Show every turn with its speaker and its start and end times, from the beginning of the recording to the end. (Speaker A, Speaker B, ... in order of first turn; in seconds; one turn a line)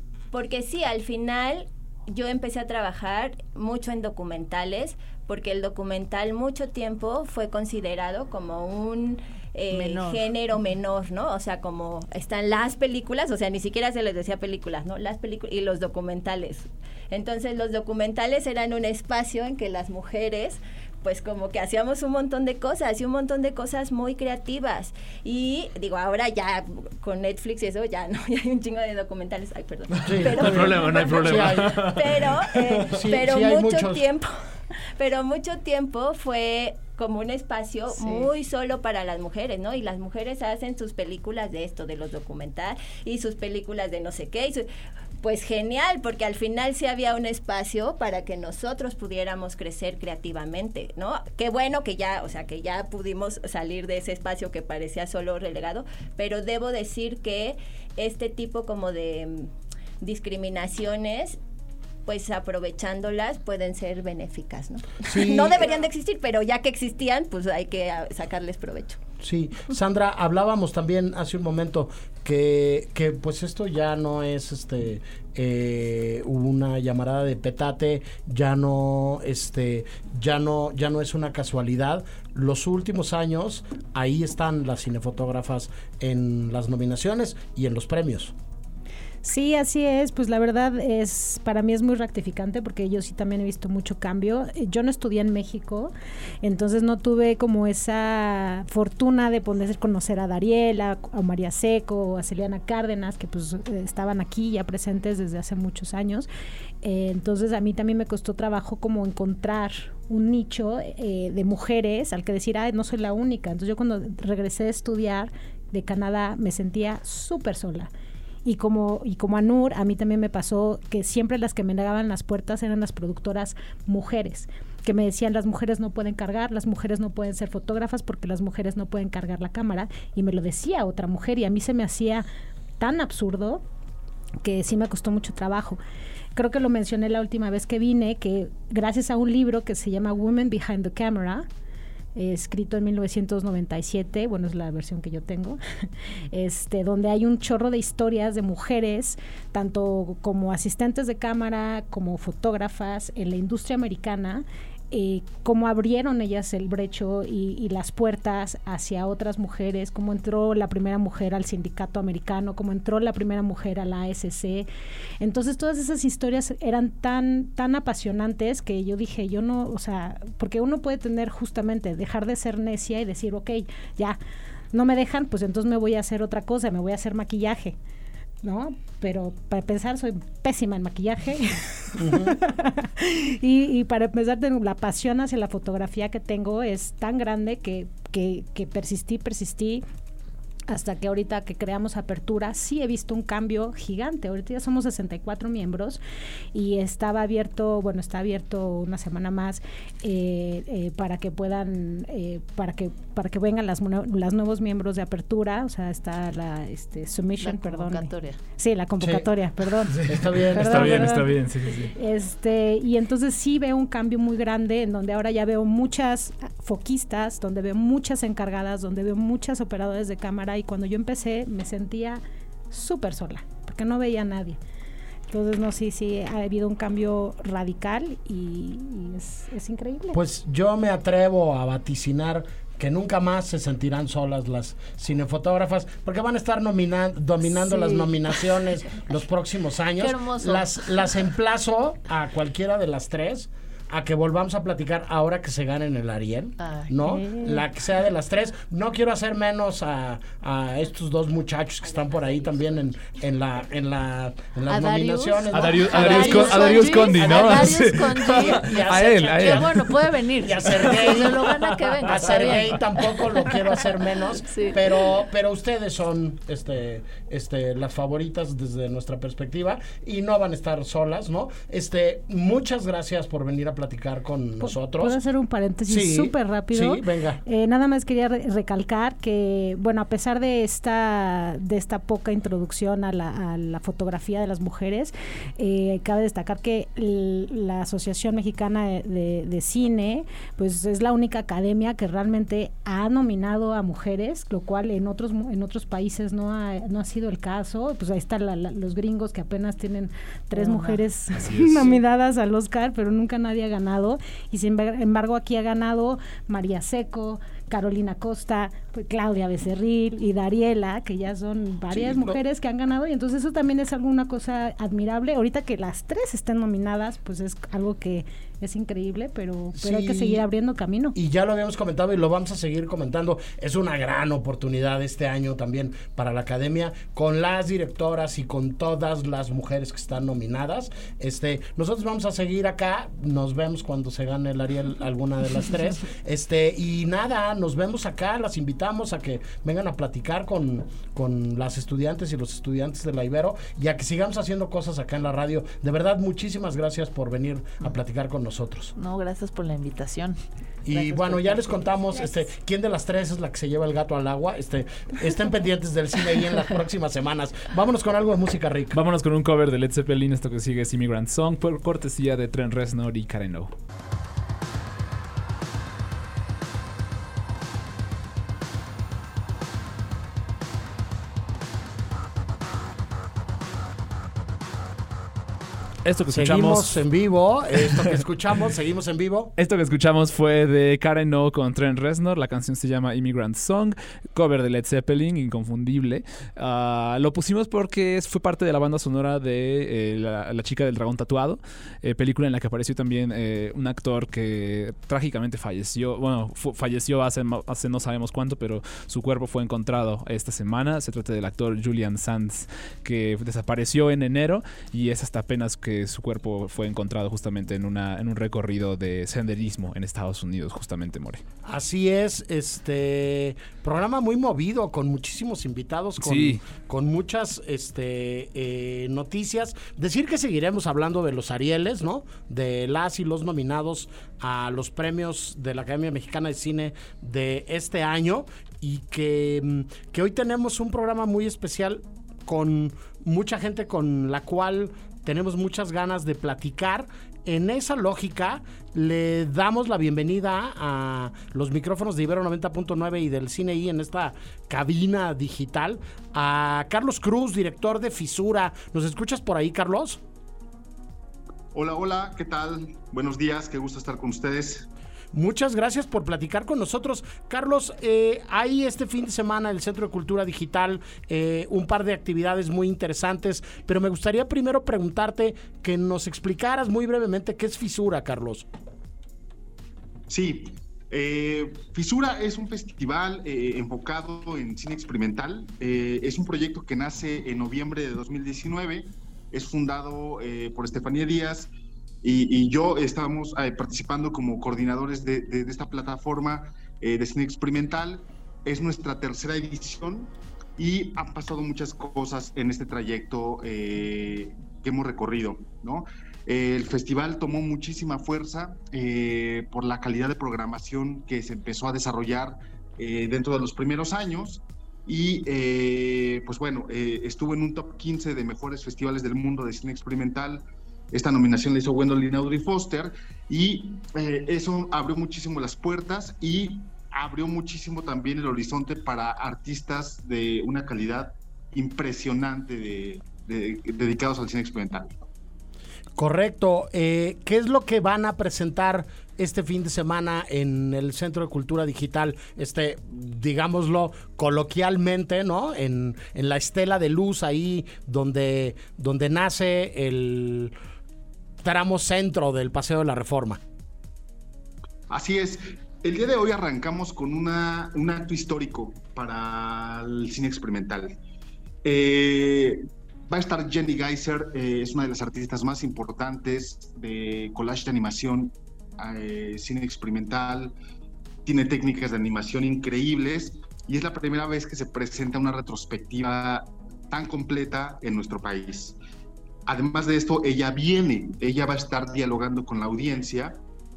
Speaker A: 0.3-34.3
Speaker B: 9.7-10.3
Speaker C: 30.1-32.0
Speaker D: 30.4-32.3
Speaker E: 31.1-31.5
Speaker C: 32.8-34.0
Speaker A: 35.0-44.7
Speaker B: 38.0-38.3
Speaker A: 45.2-61.4
Speaker A: 62.0-69.0
Speaker C: 65.0-65.7
Speaker C: 69.2-88.3
Speaker F: 89.2-106.3
Speaker F: 106.8-117.9
Speaker F: 118.4-132.2
Speaker F: 132.8-133.6
Speaker F: 134.4-135.8
Speaker F: 136.3-141.4
Speaker F: 142.2-164.7
Speaker F: 165.2-174.2
Speaker F: 174.7-177.8
Speaker F: 178.4-189.8
Speaker C: 182.0-182.3
Speaker F: 190.7-196.0
Speaker F: 196.5-224.6
Speaker B: 207.4-208.4
Speaker C: 209.0-209.3
Speaker C: 209.8-211.2
Speaker D: 210.5-211.9
Speaker F: 225.3-230.2
Speaker C: 230.1-259.9
Speaker B: 237.6-238.6
Speaker B: 240.0-241.1
Speaker B: 246.6-246.9
Speaker F: 247.1-247.6
Speaker B: 254.7-262.9
Speaker D: 255.5-260.0
Speaker C: 260.4-275.1
Speaker D: 260.6-262.8
Speaker B: 264.5-264.9
Speaker F: 274.6-321.1
Speaker C: 275.9-277.4
Speaker B: 300.5-301.0
Speaker D: 301.3-302.0
Speaker C: 311.9-312.4
Speaker C: 319.7-320.4
Speaker C: 321.1-348.9
Speaker B: 348.9-350.4
Speaker C: 350.9-359.0
Speaker B: 350.9-352.5
Speaker D: 358.9-363.7
Speaker D: 376.0-377.0
Speaker C: 376.3-379.5
Speaker D: 377.8-378.1
Speaker D: 379.6-411.4
Speaker C: 411.6-450.2
Speaker D: 416.2-416.6
Speaker E: 451.7-454.9
Speaker C: 455.3-468.7
Speaker E: 470.3-481.7
Speaker E: 482.2-525.2
Speaker C: 526.2-540.7
Speaker C: 541.6-543.6
Speaker E: 545.1-551.2
Speaker E: 551.8-552.8
Speaker E: 553.3-560.7
Speaker E: 561.5-569.0
Speaker E: 569.7-573.6